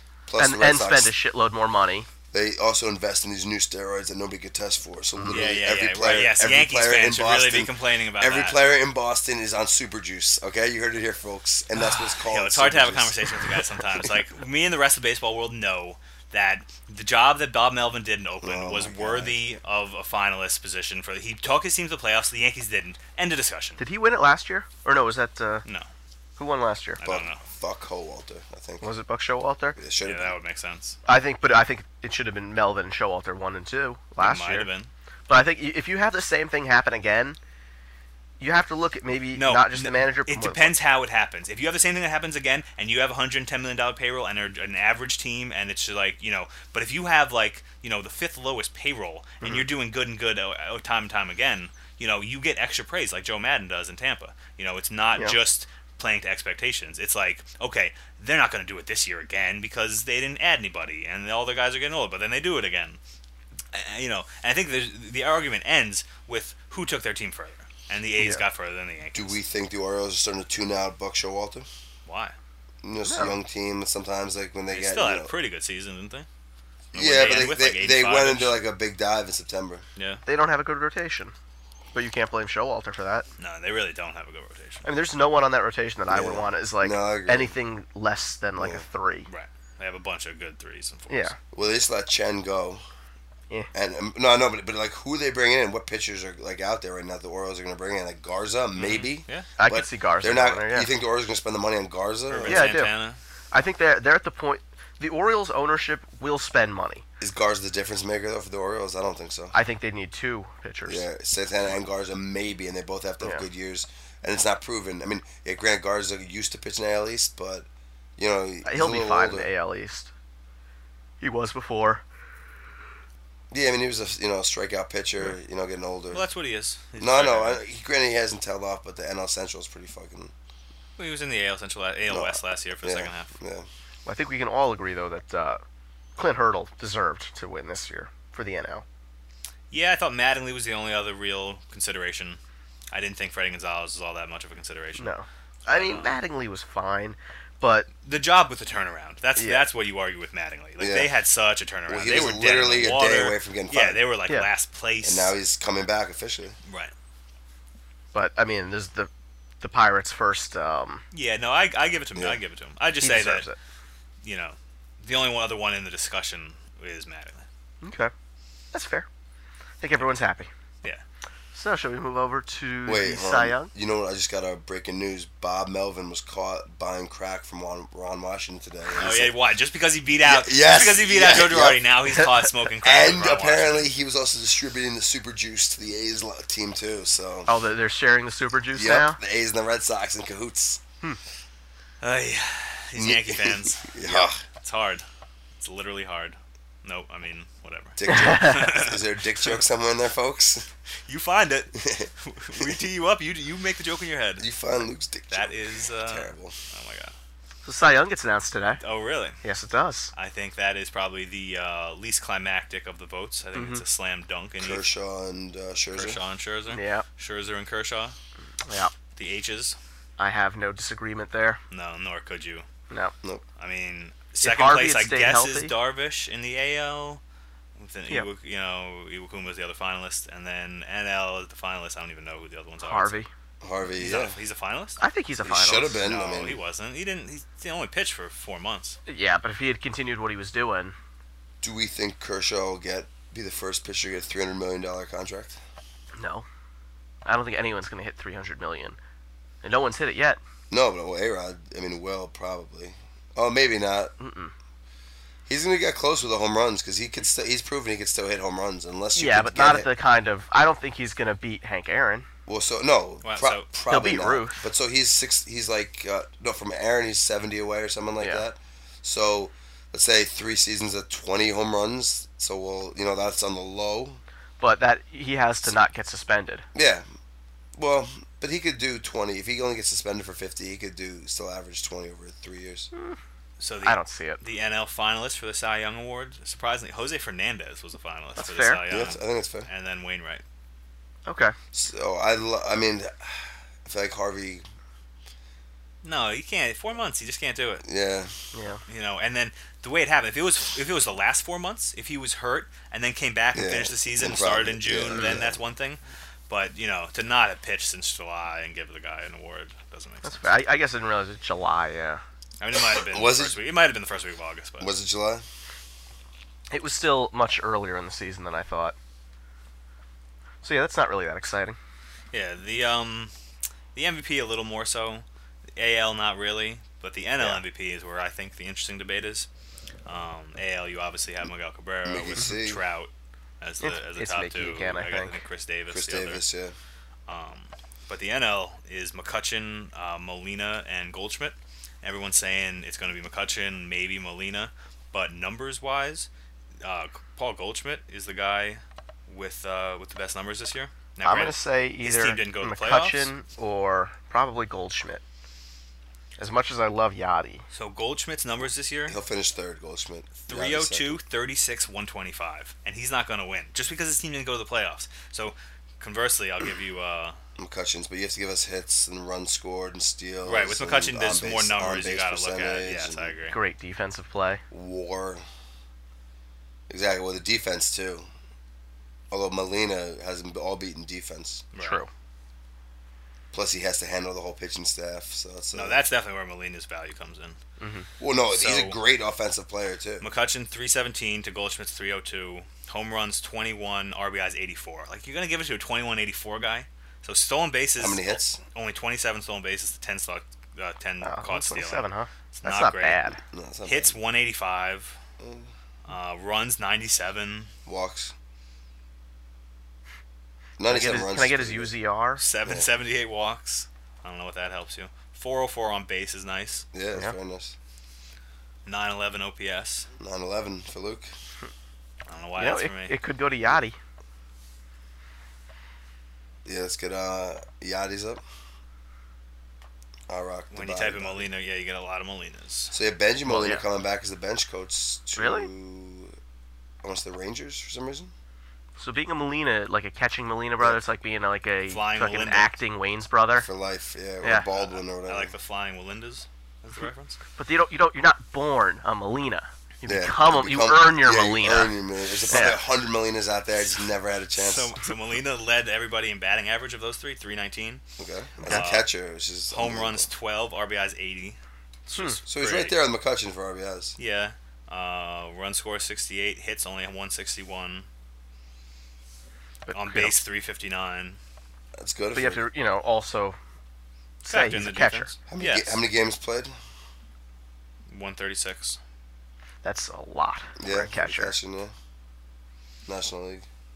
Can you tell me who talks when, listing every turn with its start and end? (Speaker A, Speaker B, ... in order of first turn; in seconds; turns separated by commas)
Speaker A: 0.3-1.1, Speaker B: 0.4-2.1, Speaker A: 2.3-13.3, Speaker B: 5.2-5.5, Speaker C: 5.3-8.6, Speaker C: 11.8-23.8, Speaker A: 18.4-19.4, Speaker B: 23.8-25.6, Speaker B: 26.4-27.0, Speaker C: 27.0-27.4, Speaker A: 27.0-28.9, Speaker B: 28.8-29.8, Speaker A: 29.8-30.4, Speaker C: 30.1-31.0, Speaker B: 31.1-34.7, Speaker C: 34.2-34.9, Speaker B: 35.3-37.4, Speaker B: 38.4-40.7, Speaker C: 39.4-63.0, Speaker C: 63.7-69.4, Speaker A: 69.1-71.7, Speaker C: 72.1-72.4, Speaker A: 72.8-75.3, Speaker B: 73.1-73.4, Speaker C: 74.7-76.3, Speaker A: 76.9-79.8, Speaker C: 76.9-78.5, Speaker C: 80.0-80.2, Speaker B: 80.3-81.3, Speaker B: 81.9-83.3, Speaker C: 83.4-84.8, Speaker B: 84.8-89.3, Speaker A: 86.1-87.5, Speaker A: 88.6-88.8, Speaker C: 89.3-91.3, Speaker B: 91.1-91.3, Speaker A: 91.5-92.8, Speaker A: 93.7-102.7, Speaker C: 98.8-99.5, Speaker B: 99.6-100.9, Speaker C: 102.3-103.2, Speaker B: 102.5-102.9, Speaker B: 103.5-107.0, Speaker A: 107.2-109.5, Speaker B: 109.5-111.0, Speaker A: 110.9-117.7, Speaker A: 118.2-119.5, Speaker B: 118.6-120.1, Speaker B: 121.2-122.0, Speaker A: 123.5-126.3, Speaker C: 126.1-127.6, Speaker A: 127.0-130.3, Speaker C: 131.0-133.3, Speaker A: 132.1-133.7, Speaker B: 134.1-135.6, Speaker B: 136.2-138.8, Speaker C: 139.7-142.4, Speaker C: 142.9-145.1, Speaker B: 145.0-147.9, Speaker C: 145.7-146.2, Speaker C: 148.0-155.3, Speaker B: 149.4-149.7, Speaker A: 150.8-151.1, Speaker A: 151.9-154.0, Speaker A: 155.0-156.6, Speaker C: 156.7-156.9, Speaker B: 158.1-159.1, Speaker B: 159.6-161.0, Speaker C: 161.1-163.5, Speaker B: 163.0-163.6, Speaker C: 164.2-167.4, Speaker B: 167.8-168.1, Speaker B: 168.7-169.1, Speaker B: 169.8-170.5, Speaker B: 171.5-173.7, Speaker A: 172.9-179.3, Speaker C: 178.9-183.9, Speaker A: 180.2-181.8, Speaker A: 182.8-187.5, Speaker B: 187.5-189.2, Speaker A: 188.7-190.8, Speaker C: 192.0-195.1, Speaker A: 193.0-194.4, Speaker C: 195.6-199.5, Speaker A: 198.0-200.7, Speaker B: 198.1-198.6, Speaker C: 201.1-204.4, Speaker A: 201.8-202.8, Speaker A: 204.4-206.6, Speaker C: 205.3-207.1, Speaker B: 207.6-208.8, Speaker C: 208.8-209.4, Speaker B: 209.4-210.1, Speaker C: 210.1-214.8, Speaker B: 213.5-213.8, Speaker A: 214.6-216.2, Speaker C: 215.9-218.2, Speaker B: 216.7-217.1, Speaker B: 218.7-218.9, Speaker C: 219.1-219.8, Speaker B: 220.2-221.6, Speaker C: 221.7-222.6, Speaker C: 223.6-227.2, Speaker B: 224.4-225.7, Speaker C: 227.8-233.2, Speaker B: 232.8-233.3, Speaker A: 233.6-234.4, Speaker C: 234.0-235.0, Speaker B: 235.0-236.0, Speaker A: 235.4-236.6, Speaker C: 236.0-239.0, Speaker B: 239.1-240.9, Speaker A: 241.6-245.6, Speaker B: 246.1-246.5, Speaker B: 247.2-249.0, Speaker B: 249.6-250.4, Speaker A: 250.7-254.1, Speaker B: 254.2-254.5, Speaker A: 255.5-259.9, Speaker B: 259.1-262.3, Speaker A: 262.5-274.2, Speaker C: 263.2-263.7, Speaker B: 263.9-264.6, Speaker B: 274.6-276.6, Speaker A: 276.8-277.1, Speaker A: 277.8-282.9, Speaker C: 283.6-290.4, Speaker B: 283.8-284.4, Speaker B: 288.4-288.8, Speaker A: 288.9-289.7, Speaker B: 291.3-291.6, Speaker A: 291.7-294.6, Speaker C: 296.0-297.8, Speaker A: 297.9-298.3, Speaker B: 298.5-298.8, Speaker C: 298.9-310.6, Speaker A: 303.5-305.6, Speaker B: 310.2-312.2, Speaker C: 312.6-314.9, Speaker A: 312.9-313.6, Speaker A: 314.8-315.4, Speaker B: 316.7-318.9, Speaker B: 320.6-321.8, Speaker C: 322.3-323.3, Speaker C: 323.9-325.2, Speaker C: 325.8-329.5, Speaker C: 330.1-336.4, Speaker A: 332.1-332.8, Speaker B: 333.8-335.4, Speaker A: 335.9-336.8, Speaker C: 337.3-346.3, Speaker C: 346.8-353.3, Speaker B: 351.2-355.2, Speaker B: 356.4-357.6, Speaker C: 357.7-359.1, Speaker A: 359.1-361.2, Speaker C: 360.5-367.4, Speaker A: 367.6-373.3, Speaker C: 370.4-373.6, Speaker B: 373.5-374.6, Speaker A: 374.7-375.4, Speaker A: 376.9-378.3, Speaker A: 379.3-381.6, Speaker C: 381.7-382.0, Speaker B: 381.8-382.1, Speaker A: 383.5-386.0, Speaker C: 385.7-387.6, Speaker B: 387.8-388.1, Speaker A: 388.2-390.3, Speaker C: 388.5-389.0, Speaker C: 390.2-403.2, Speaker A: 398.0-398.6, Speaker B: 401.2-403.4, Speaker A: 403.5-404.1, Speaker C: 403.9-405.1, Speaker A: 405.4-405.7, Speaker C: 406.1-407.7, Speaker A: 407.9-408.3, Speaker A: 410.8-411.9, Speaker B: 410.9-412.4, Speaker C: 412.4-416.9, Speaker A: 416.9-417.8, Speaker C: 418.9-420.1, Speaker A: 420.2-421.3, Speaker C: 422.3-423.1, Speaker B: 422.6-424.0, Speaker A: 426.6-428.4, Speaker A: 430.3-431.5, Speaker C: 430.7-432.9, Speaker A: 432.9-436.4, Speaker B: 433.5-433.9, Speaker B: 435.4-435.7, Speaker A: 437.0-438.3, Speaker B: 439.0-443.7, Speaker C: 441.9-442.7, Speaker A: 443.6-445.5, Speaker B: 444.4-444.7, Speaker C: 444.7-447.4, Speaker B: 447.6-451.9, Speaker A: 450.1-454.9, Speaker B: 452.5-452.8, Speaker C: 454.6-458.0, Speaker A: 458.2-460.3, Speaker C: 458.6-459.1, Speaker C: 459.7-462.9, Speaker B: 462.1-462.4, Speaker A: 462.5-464.1, Speaker C: 464.2-468.1, Speaker B: 469.9-470.4, Speaker C: 469.9-471.4, Speaker A: 472.0-472.6, Speaker B: 472.3-473.6, Speaker B: 474.4-475.3, Speaker C: 474.5-476.0, Speaker A: 475.5-476.8, Speaker C: 478.1-479.0, Speaker B: 479.8-481.6, Speaker A: 480.8-481.9, Speaker A: 483.1-483.6